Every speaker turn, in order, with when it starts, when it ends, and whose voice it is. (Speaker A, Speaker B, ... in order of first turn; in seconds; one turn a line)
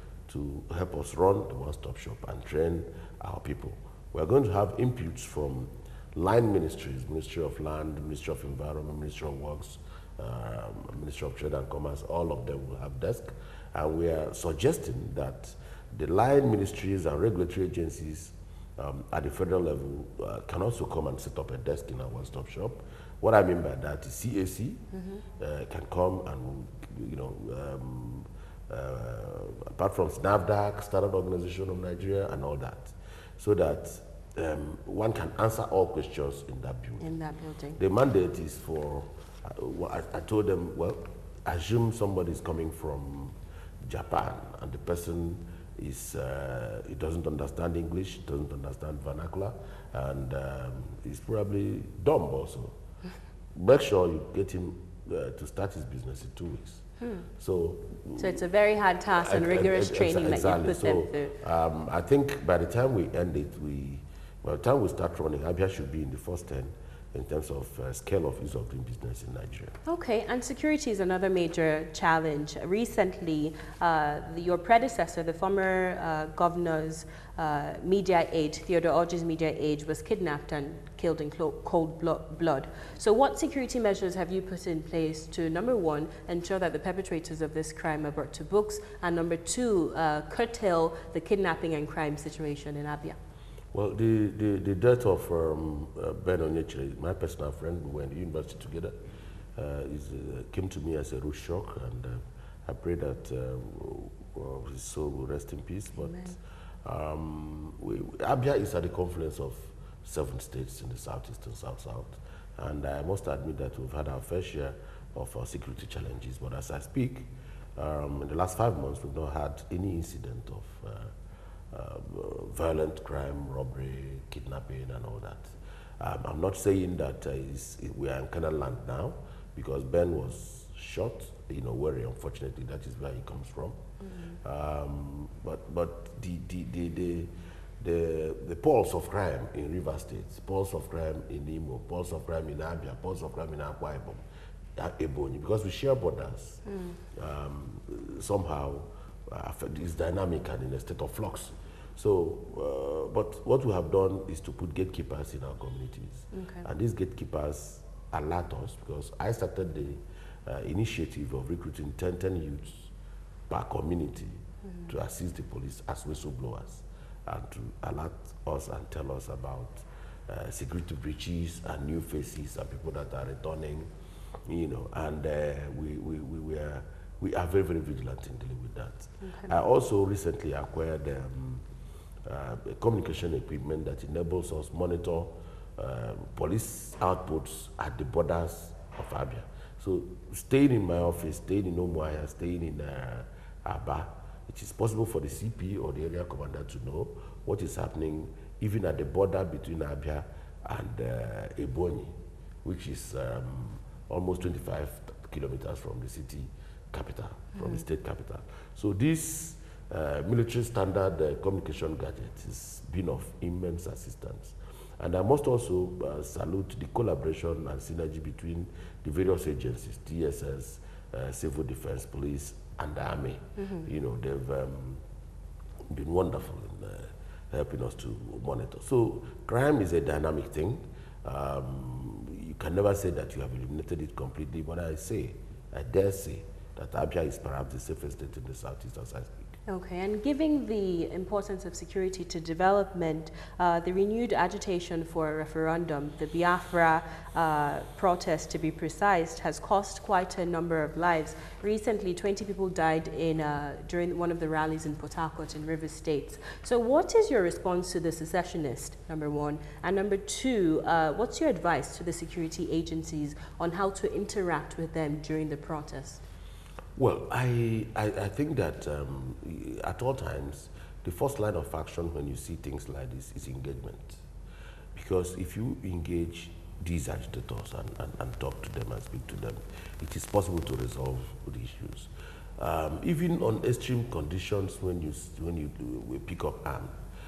Speaker A: 0.3-24.8
Speaker B: 24.9-25.2
Speaker A: 25.4-37.1
Speaker B: 37.0-37.8
Speaker A: 37.8-52.7
Speaker A: 53.5-56.8
Speaker B: 57.0-57.2
Speaker A: 57.4-58.4
Speaker B: 58.2-61.4
Speaker A: 59.1-69.7
Speaker B: 69.8-93.2
Speaker A: 93.7-99.0
Speaker A: 99.5-121.1
Speaker B: 106.0-106.3
Speaker A: 121.7-133.8
Speaker A: 134.3-144.2
Speaker A: 144.8-162.9
Speaker B: 146.7-147.0
Speaker B: 156.3-156.7
Speaker A: 163.5-173.9
Speaker A: 174.5-181.6
Speaker B: 179.2-179.5
Speaker A: 182.2-225.0
Speaker A: 225.9-239.5
Speaker B: 239.7-266.2
Speaker A: 266.9-274.2
Speaker A: 274.9-286.9